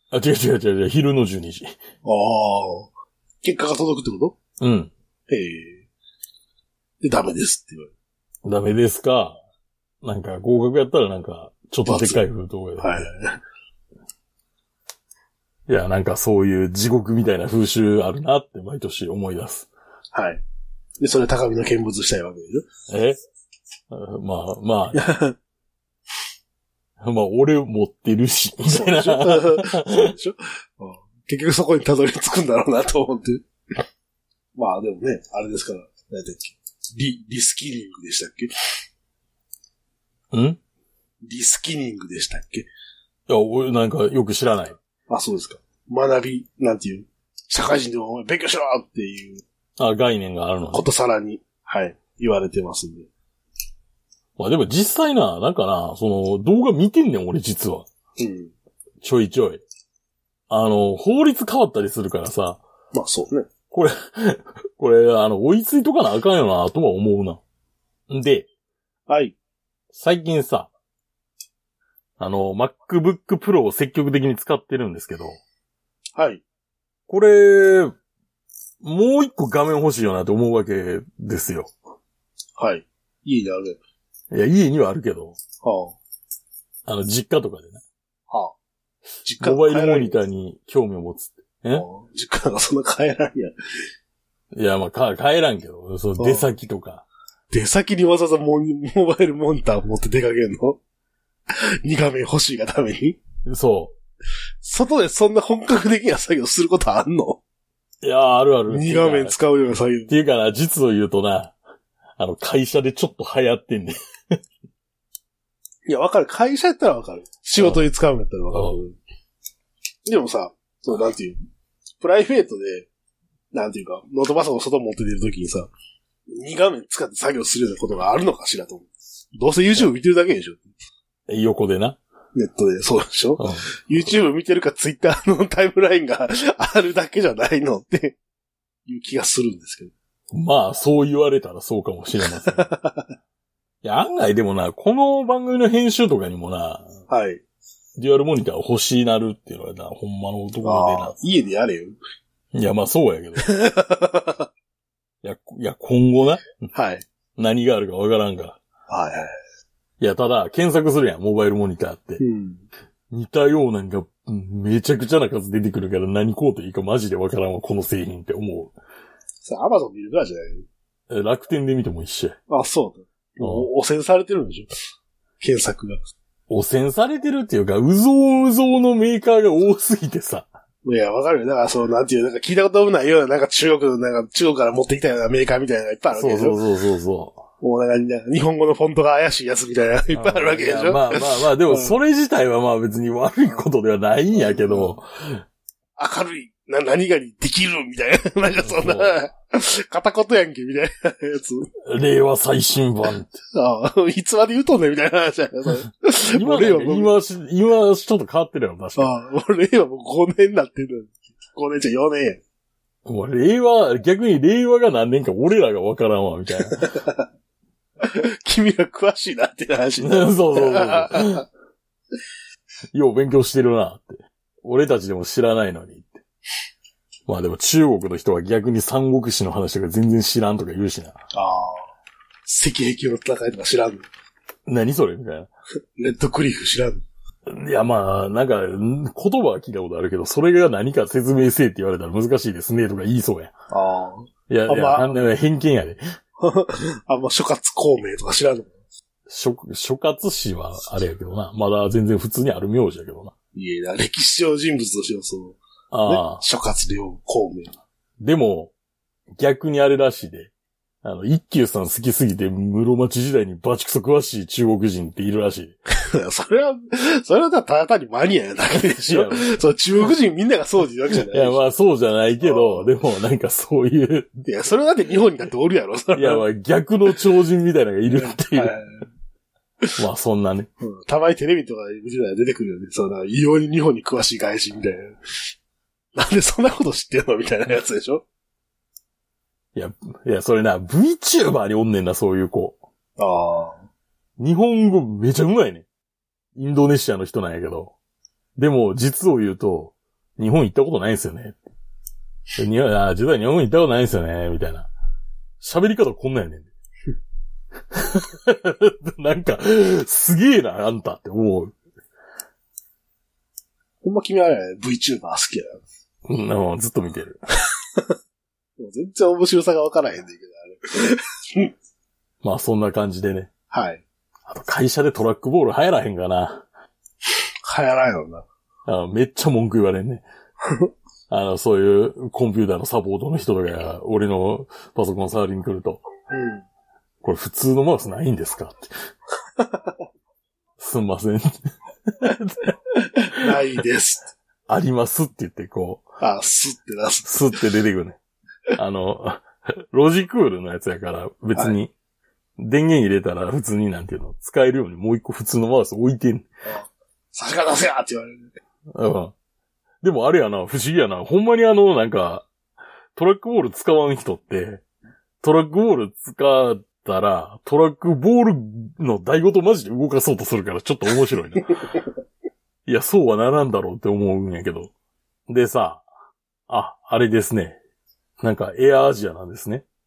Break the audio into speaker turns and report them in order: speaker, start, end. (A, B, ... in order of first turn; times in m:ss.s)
0:00.1-0:01.7 A
0:02.0-0:02.9 B
0:03.4-0:04.4 B
0:04.6-0:04.9 A
0:05.3-0:05.9 B
0:07.0-0:07.9 B
0:08.4-0:09.4 A
0:10.0-0:13.1 A
0:11.8-0:12.2 B
0:12.8-0:13.4 B
0:15.7-0:19.7 A
0:20.1-0:20.4 B
0:21.0-0:22.6 B
0:22.9-0:23.2 A
0:23.9-0:25.1 A
0:24.9-0:25.4 B
0:27.0-0:30.1 A
0:28.7-0:33.4 B
0:34.6-0:38.5 B
0:40.3-0:40.6 A
0:41.2-0:42.7 B
0:43.3-0:44.8 A
0:45.1-0:49.4 B
0:49.8-0:50.9 A
0:50.7-0:53.1 B
0:54.4-0:57.9 A
0:58.2-0:58.5 B
0:59.0-0:59.6 A
1:00.5-1:02.6 A
1:02.9-1:03.5 B
1:03.7-1:07.4 A
1:08.1-1:08.5 A
1:09.1-1:09.4 B
1:09.9-1:10.7 A
1:12.2-1:15.4 A
1:16.2-1:16.4 B
1:17.1-1:17.9 A
1:18.8-1:21.7 A
1:22.6-1:23.8 B
1:24.3-1:25.4 A
1:25.6-1:26.0 B
1:26.9-1:27.8 A
1:28.3-1:28.6 B
1:29.2-1:30.2 B
1:29.4-1:31.9 A
1:31.7-1:33.5 B
1:34.5-1:37.0 A
1:36.2-1:36.5 B
1:37.5-1:40.8 B
1:41.8-1:43.2 B
1:43.5-1:43.9 A
1:44.6-1:47.4 B
1:48.0-1:49.4 A
1:48.7-1:50.1 B
1:50.1-1:51.6 A
1:52.2-1:54.4 A
1:55.9-1:59.0 B
1:57.6-1:57.8 A
1:58.5-1:58.8 A
2:00.1-2:01.4 B
2:02.0-2:02.9 B
2:03.5-2:05.7 B
2:06.3-2:10.7 B
2:11.3-2:12.0 A
2:12.4-2:18.2 B
2:13.4-2:14.1 A
2:18.9-2:19.9 B
2:20.3-2:22.7 A
2:22.3-2:23.1 B
2:23.8-2:26.9 A
2:27.1-2:27.4 B
2:28.0-2:31.2 A
2:30.6-2:32.0 B
2:32.5-2:33.5 A
2:33.4-2:34.5 B
2:35.2-2:36.7 A
2:36.7-2:37.0 B
2:37.4-2:38.6 A
2:38.9-2:39.4 B
2:40.0-2:42.2 A
2:42.2-2:42.7 B
2:43.1-2:48.7 A
2:49.4-2:50.7 B
2:51.1-2:52.4 A
2:52.5-2:54.7 B
2:53.4-2:53.7 A
2:55.4-2:56.0 B
2:56.5-3:00.5 A
3:00.8-3:06.6 B
3:06.1-3:07.4 A
3:07.6-3:12.0 B
3:10.1-3:15.4 A
3:14.3-3:15.0 B
3:16.0-3:21.7 B
3:18.6-3:19.2 A
3:21.9-3:23.4 A
3:23.5-3:27.1 B
3:26.3-3:29.1 A
3:29.0-3:32.4 B
3:33.0-3:37.0 A
3:36.7-3:37.2 B
3:38.0-3:41.4 B
3:40.0-3:41.4 A
3:42.9-3:46.2 A
3:47.3-3:51.2 A
3:51.3-3:51.9 B
3:52.5-3:54.1 B
3:54.7-3:55.5 A
3:56.0-3:57.0 B
3:57.5-4:03.5 A
4:03.7-4:05.2 B
4:04.5-4:06.0 A
4:06.4-4:08.7 B
4:09.3-4:13.3 A
4:13.6-4:17.7 B
4:15.9-4:16.4 A
4:18.2-4:18.7 A
4:19.4-4:20.5 A
4:21.0-4:25.8 A
4:26.1-4:31.6 B
4:28.7-4:29.5 A
4:31.1-4:34.4 A
4:32.4-4:32.9 B
4:34.4-4:36.4 B
4:36.2-4:38.8 A
4:38.1-4:39.1 B
4:40.0-4:40.7 A
4:40.8-4:45.2 B
4:46.2-4:48.2 B
4:49.8-4:52.8 A
4:53.2-4:53.8 B
4:54.4-4:55.8 A
4:56.6-4:57.9 A
4:58.6-5:01.6 A
5:02.6-5:04.9 A
5:05.6-5:06.7 A
5:07.9-5:11.8 A
5:14.0-5:15.8 B
5:16.3-5:17.4 A
5:18.8-5:21.7 B
5:22.4-5:23.5 A
5:23.7-5:24.0 B
5:24.5-5:26.6 A
5:27.7-5:28.4 B
5:28.9-5:30.2 A
5:31.3-5:36.0 A
5:36.3-5:36.6 B
5:37.2-5:38.9 A
5:39.6-5:39.9 B
5:40.8-5:42.7 A
5:43.2-5:44.3 B
5:44.7-5:46.1 A
5:46.2-5:47.6 B
5:47.2-5:48.2 A
5:48.8-5:51.9 A
5:52.6-5:56.4 A
5:56.7-5:58.5 B
5:58.9-5:59.3 A
6:00.0-6:02.5 A
6:03.2-6:04.8 A
6:05.4-6:11.7 A
6:12.9-6:14.9 A
6:15.5-6:16.0 A
6:16.7-6:17.8 A
6:18.4-6:19.8 A